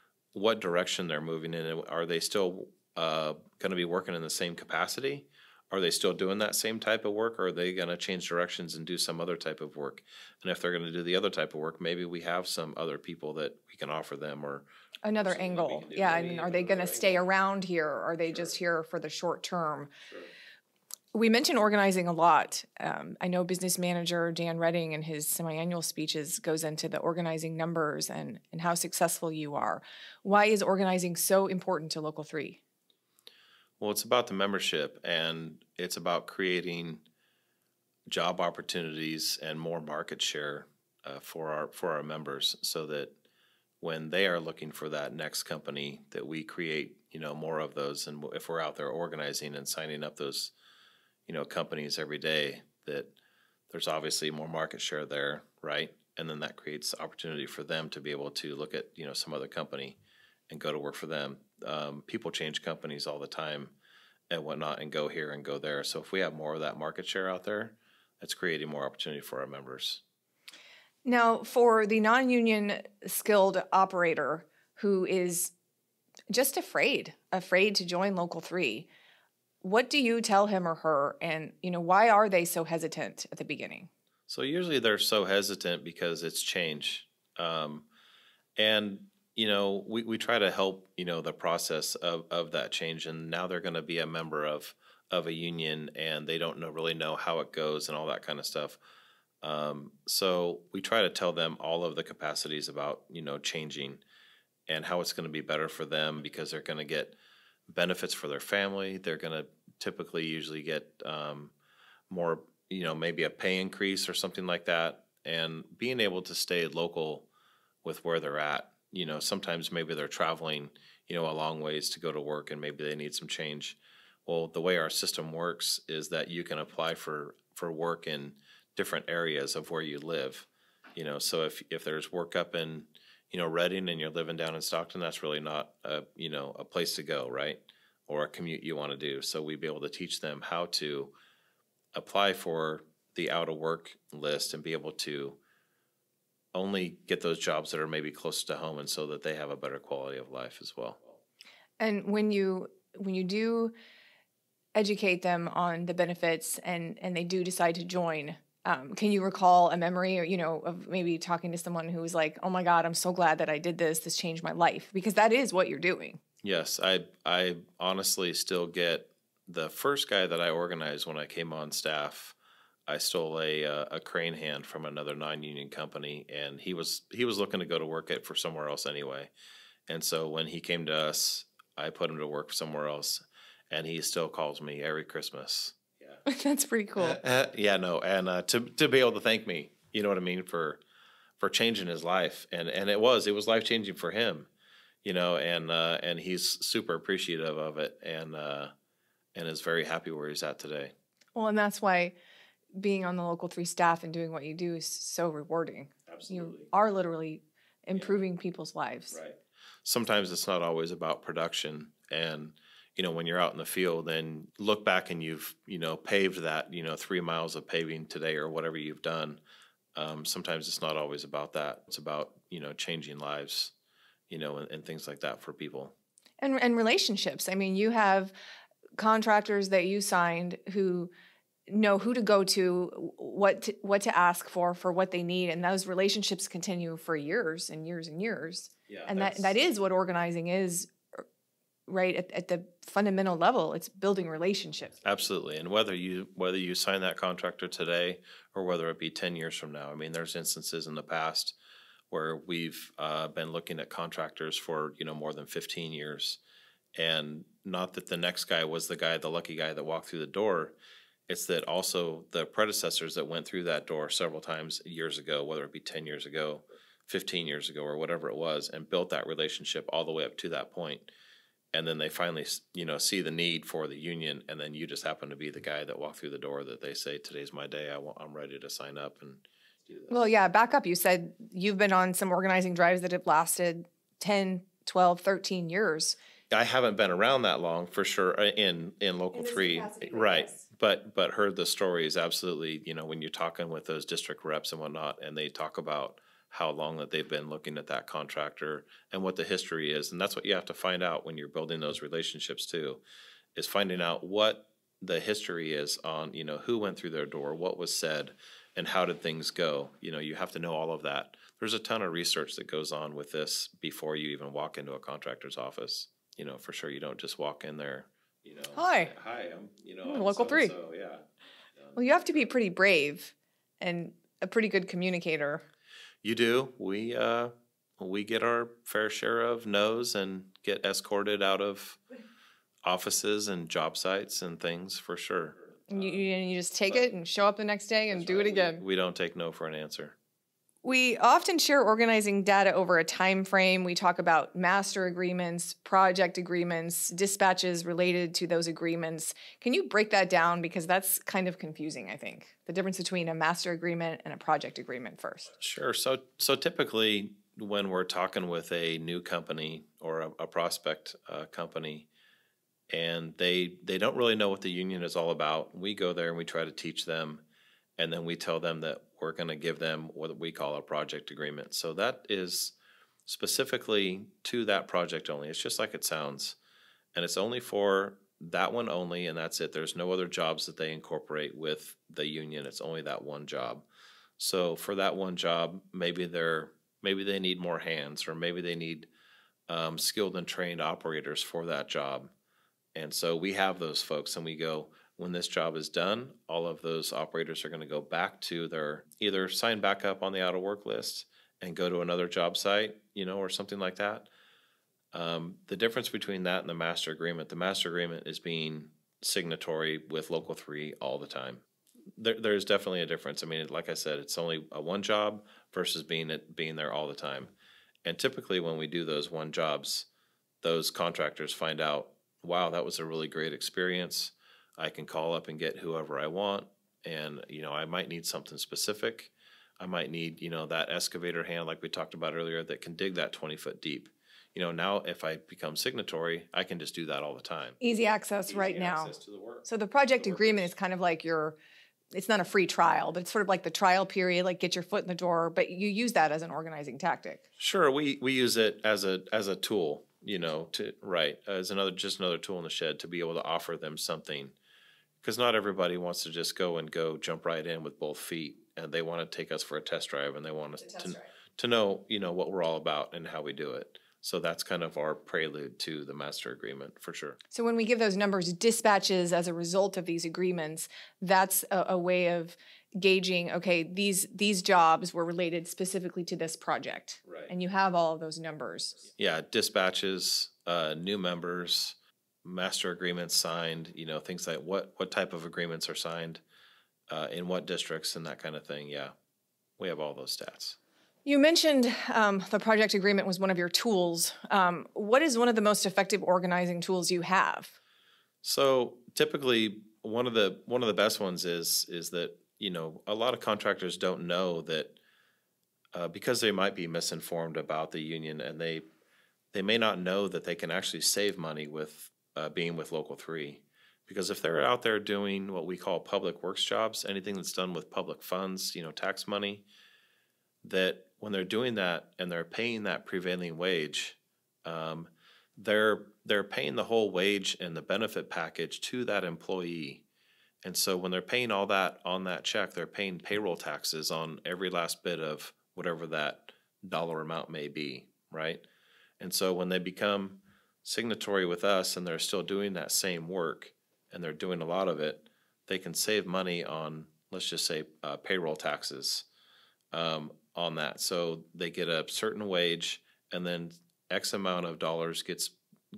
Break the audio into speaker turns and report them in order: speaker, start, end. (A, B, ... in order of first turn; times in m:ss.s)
0:00.3-0:14.6 A
0:15.0-0:19.9 B
0:15.2-0:17.2 A
0:18.3-0:18.5 A
0:21.1-0:32.6 B
0:33.8-0:37.0 A
0:38.1-0:43.1 A
0:43.8-0:50.5 A
0:51.2-0:53.1 A
0:53.7-1:00.0 A
1:00.5-1:03.7 A
1:04.3-1:10.0 A
1:11.0-1:15.5 B
1:16.3-1:18.9 B
1:19.6-1:23.9 B
1:24.3-1:27.9 A
1:28.6-1:38.8 A
1:39.4-1:44.0 A
1:44.7-1:47.2 A
1:47.7-1:51.5 A
1:52.1-1:57.3 A
1:57.8-2:21.1 A
2:21.9-2:25.4 A
2:26.5-2:31.2 A
2:31.8-2:33.7 B
2:34.7-2:46.2 B
2:46.4-2:52.4 A
2:52.9-2:59.3 A
2:59.9-3:06.2 A
3:06.2-3:07.2 B
3:07.0-3:10.8 A
3:11.4-3:14.5 A
3:15.0-3:18.7 A
3:19.3-3:20.9 A
3:21.3-3:22.2 B
3:22.7-3:29.2 B
3:26.1-3:26.7 A
3:29.1-3:39.4 A
3:39.9-3:43.7 A
3:44.3-3:45.9 A
3:46.4-3:48.3 B
3:49.0-3:51.1 B
3:51.7-4:01.2 B
3:58.9-3:59.6 A
4:01.9-4:05.0 B
4:05.0-4:11.6 A
4:12.1-4:16.4 A
4:16.9-4:20.8 A
4:21.3-4:31.1 A
4:31.7-4:40.2 A
4:40.1-4:46.2 B
4:46.5-5:03.0 A
4:49.3-4:50.6 B
5:03.5-5:21.2 A
5:18.7-5:19.1 B
5:20.0-5:20.7 B
5:21.8-5:22.4 A
5:21.9-5:25.6 B
5:26.2-5:32.0 A
5:32.8-5:36.2 A
5:35.9-5:38.8 B
5:38.1-5:40.2 A
5:40.8-5:55.5 B
5:55.6-6:02.1 A
6:02.9-6:07.4 A
6:08.0-6:12.7 A
6:13.2-6:16.6 A
6:17.1-6:23.8 A
6:24.4-6:29.1 A
6:29.7-6:32.3 A
6:32.9-6:44.3 A
6:45.1-6:51.6 A
6:52.2-6:57.5 A
6:58.0-7:00.1 A
7:00.6-7:17.8 A
7:17.8-7:19.1 B
7:18.5-7:20.7 A
7:19.6-7:21.6 B
7:22.1-7:27.4 B
7:27.6-7:34.5 A
7:35.2-7:47.4 A
7:47.5-7:59.0 B
7:57.2-7:57.5 A
7:59.1-8:06.4 A
8:07.1-8:09.1 A
8:09.8-8:10.8 A
8:11.2-8:17.7 B
8:18.4-8:25.0 A
8:25.9-8:28.8 A
8:29.5-8:39.6 A
8:40.6-8:50.0 A
8:50.6-8:58.6 A
8:59.2-9:09.2 A
9:09.9-9:15.6 A